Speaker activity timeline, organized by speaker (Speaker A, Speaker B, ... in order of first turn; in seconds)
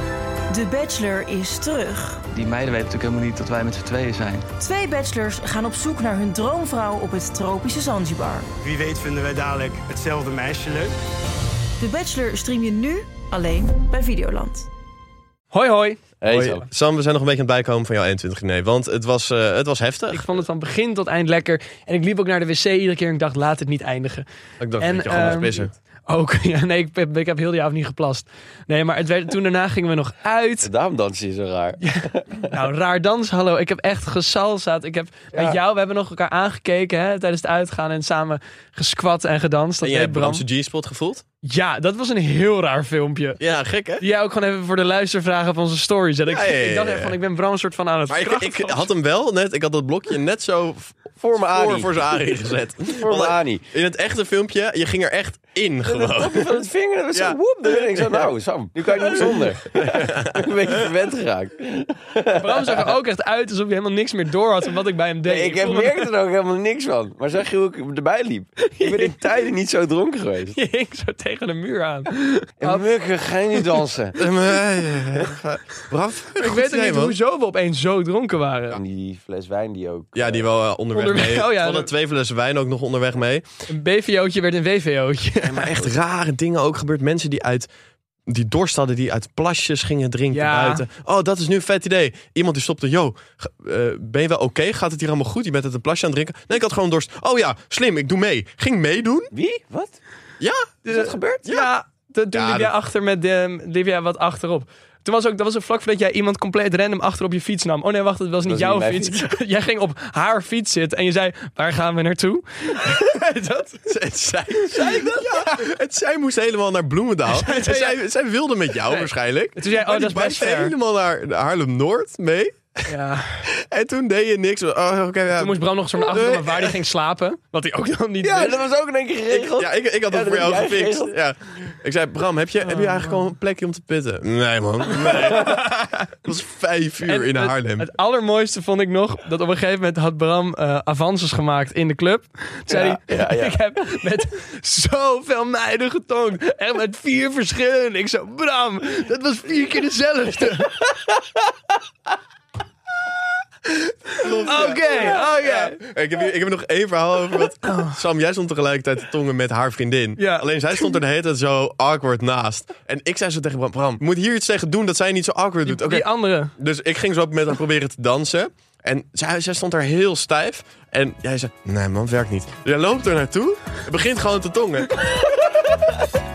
Speaker A: 0.5-2.2, 4.6-8.5, 11.8-14.7
Speaker B: 2.3-4.4
Speaker C: 8.6-10.9
Speaker D: 15.5-16.0, 20.1-24.3, 24.8-30.7, 31.8-40.5, 41.4-43.4, 44.0-48.9, 62.3-66.1, 68.6-69.2, 70.5-72.8, 76.3-78.8, 80.9-81.9, 83.7-85.7, 90.3-90.8, 100.8-113.9, 114.7-115.6, 117.3-118.0, 118.8-120.7, 122.9-123.5, 125.3-128.6, 132.7-133.2, 135.0-136.1, 137.0-150.8, 153.8-155.8, 157.6-157.9, 160.2-160.9, 165.7-166.5
Speaker E: 16.2-16.6, 30.6-32.5, 51.2-51.9, 52.9-53.6, 55.8-62.9, 65.2-70.6, 72.6-74.2, 78.7-80.5, 99.3-100.0, 100.9-101.5, 108.5-109.3, 128.2-131.1, 142.7-144.0
Speaker F: 16.2-20.3, 24.6-25.7, 39.8-41.2, 43.4-44.0, 46.3-47.2, 48.1-58.3, 58.8-60.9, 74.2-77.2, 80.2-83.5, 85.5-87.7, 88.3-99.3, 100.4-100.7, 102.3-102.7, 113.9-122.9, 123.5-126.8, 129.3-137.9, 154.2-175.4